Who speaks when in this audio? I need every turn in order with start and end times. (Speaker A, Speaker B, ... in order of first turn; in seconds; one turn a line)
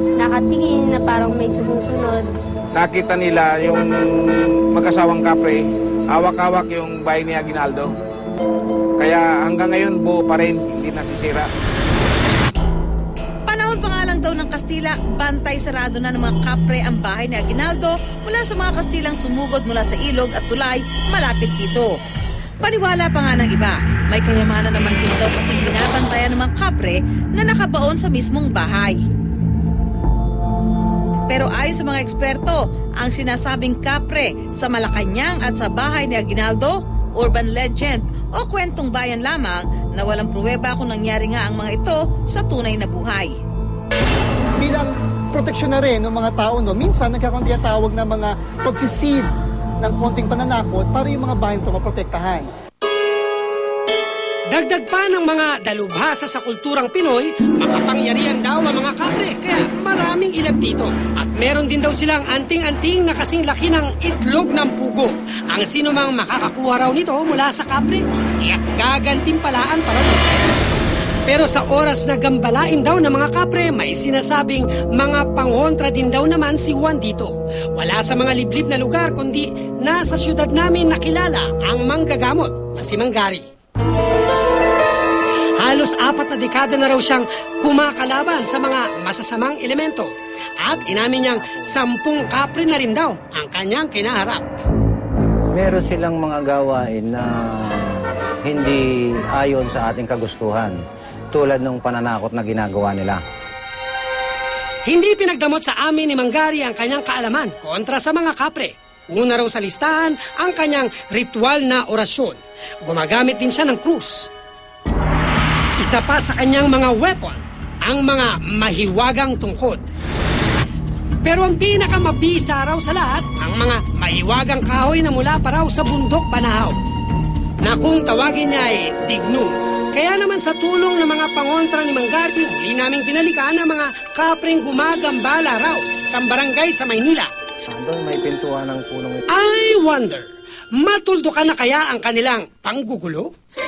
Speaker A: 0.2-2.3
Speaker B: 2.7-8.0
Speaker B: 9.0-11.5
Speaker C: 13.5-21.9
Speaker C: 22.6-29.0
Speaker C: 31.3-43.4
Speaker D: 44.5-49.3
Speaker D: 49.8-52.5
Speaker E: 54.5-70.5
Speaker E: 71.3-83.5
Speaker E: 85.6-90.1
Speaker E: 90.6-94.5
Speaker F: 90.7-91.8
Speaker F: 95.5-100.8
Speaker F: 101.3-103.2
Speaker E: 104.9-114.3
Speaker E: 115.8-119.8
Speaker E: 121.2-126.8
Speaker E: 127.6-137.3
Speaker F: 137.7-139.2
Speaker E: 139.3-140.3
Speaker E: 140.8-143.3